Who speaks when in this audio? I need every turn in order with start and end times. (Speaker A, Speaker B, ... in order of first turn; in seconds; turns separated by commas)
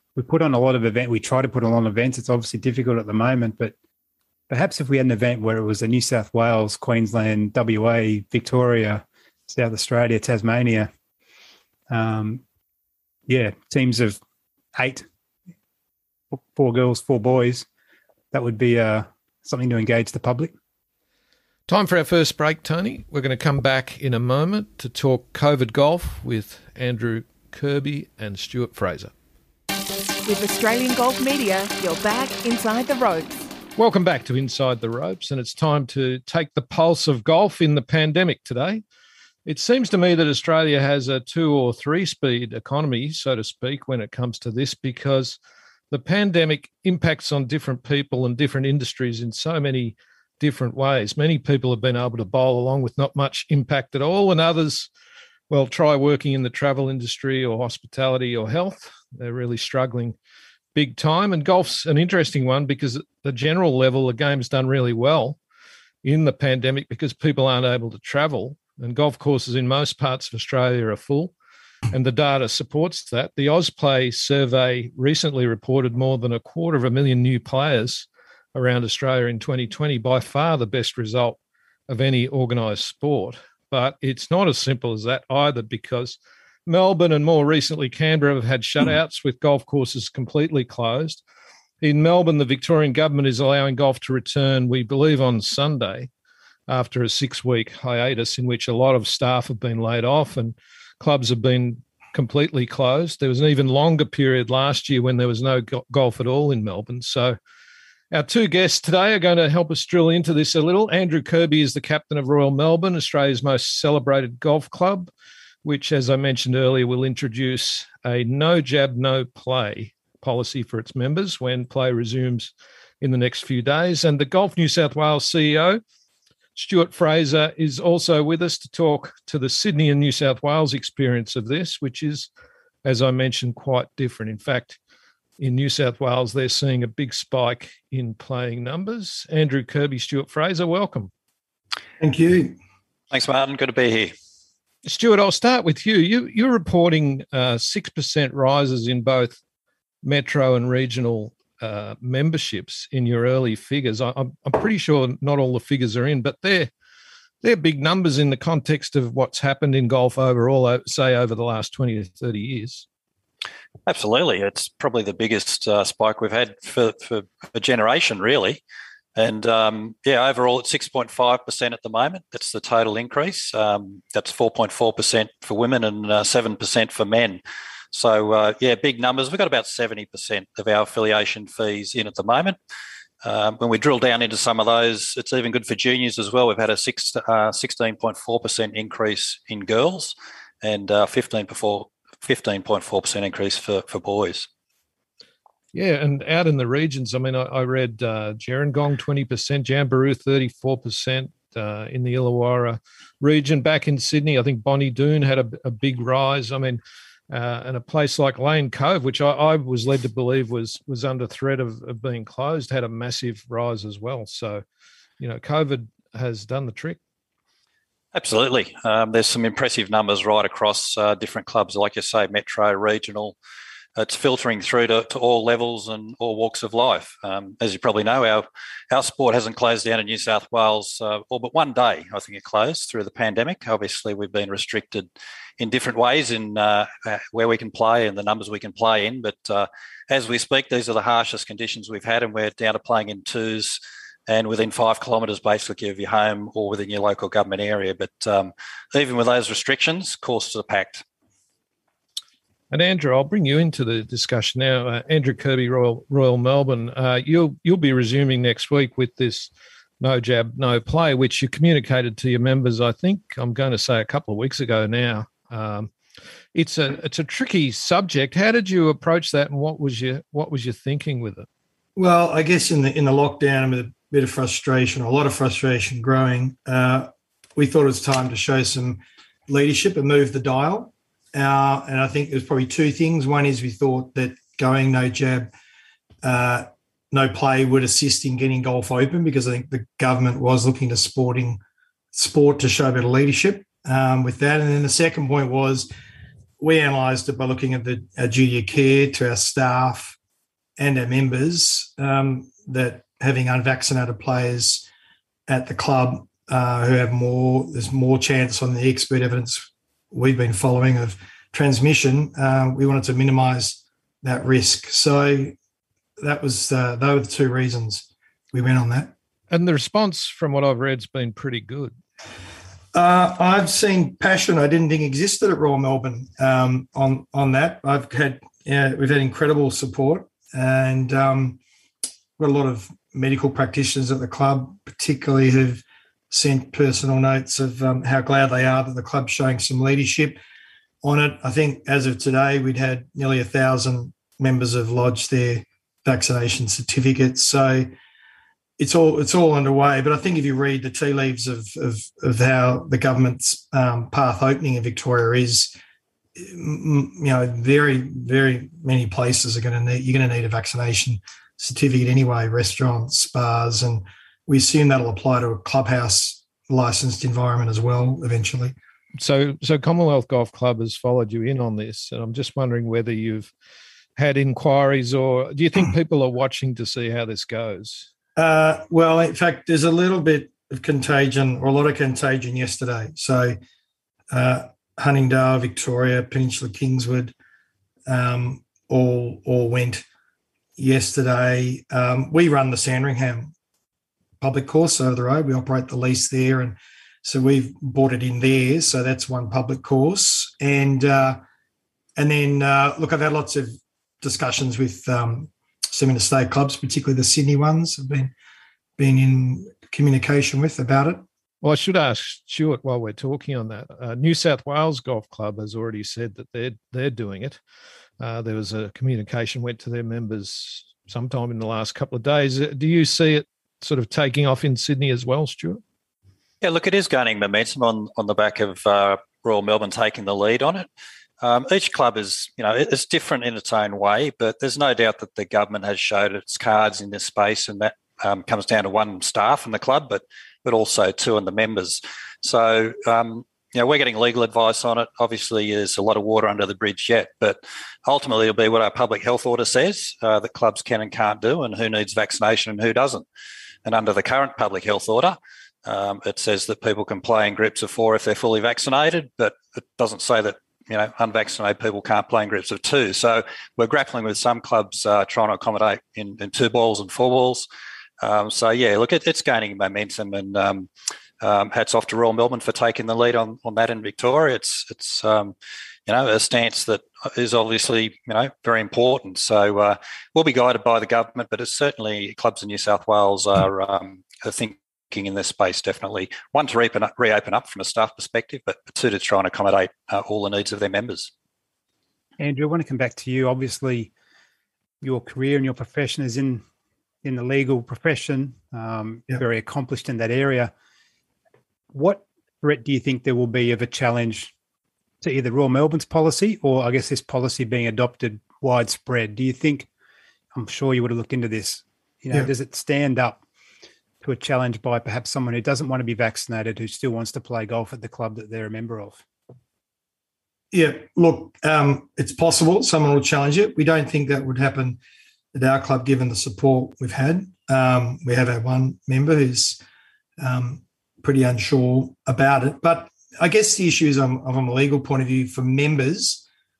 Speaker A: 0.1-3.7, Speaker A: 4.5-10.9, Speaker A: 11.9-12.4, Speaker A: 13.3-14.2, Speaker A: 14.8-15.1, Speaker A: 16.3-17.7, Speaker A: 18.3-20.5, Speaker B: 21.7-29.1, Speaker C: 30.3-33.3, Speaker B: 33.8-38.8, Speaker B: 39.5-45.4, Speaker B: 45.9-54.9, Speaker B: 55.5-60.1, Speaker B: 60.8-65.4, Speaker B: 66.0-71.3, Speaker B: 71.9-81.4, Speaker B: 81.9-91.2, Speaker B: 91.8-96.1, Speaker B: 96.7-107.4, Speaker B: 108.1-115.1, Speaker B: 115.6-125.8, Speaker B: 126.6-132.3, Speaker B: 132.8-134.8, Speaker B: 135.4-141.1, Speaker D: 142.0-142.6, Speaker E: 143.1-144.1, Speaker B: 144.8-149.4, Speaker B: 150.0-156.7, Speaker B: 157.4-162.9, Speaker E: 163.9-168.6, Speaker E: 169.2-177.4, Speaker E: 177.9-182.6, Speaker E: 183.2-194.5, Speaker B: 195.7-214.6, Speaker B: 215.2-217.0, Speaker E: 218.1-223.3, Speaker E: 224.0-251.0, Speaker B: 252.7-265.9, Speaker B: 266.6-271.5, Speaker D: 271.9-285.5, Speaker D: 286.2-291.6, Speaker D: 292.1-295.9, Speaker D: 296.6-300.2, Speaker D: 300.8-304.9, Speaker D: 305.5-315.6, Speaker D: 316.2-319.1, Speaker B: 319.5-321.9, Speaker D: 322.9-331.6, Speaker D: 332.4-340.4, Speaker D: 341.0-347.9, Speaker D: 348.8-355.8, Speaker D: 356.4-368.8, Speaker B: 369.2-373.5, Speaker B: 374.2-378.1, Speaker D: 378.4-383.6, Speaker D: 384.3-387.3, Speaker D: 388.1-390.1, Speaker D: 390.8-393.5, Speaker D: 394.4-401.4, Speaker D: 402.1-408.3, Speaker D: 409.0-411.2, Speaker B: 411.6-417.6, Speaker B: 418.2-425.8, Speaker E: 426.6-430.9, Speaker E: 431.4-453.2, Speaker E: 453.9-467.6, Speaker E: 468.2-470.9, Speaker E: 471.4-475.6, Speaker E: 476.1-491.3, Speaker A: 492.4-494.1, Speaker A: 495.0-496.6, Speaker A: 497.2-500.7, Speaker A: 501.9-504.5, Speaker A: 505.2-509.9, Speaker A: 510.5-513.4, Speaker A: 514.2-519.2, Speaker D: 520.7-525.0, Speaker D: 525.5-529.8, Speaker D: 530.4-536.4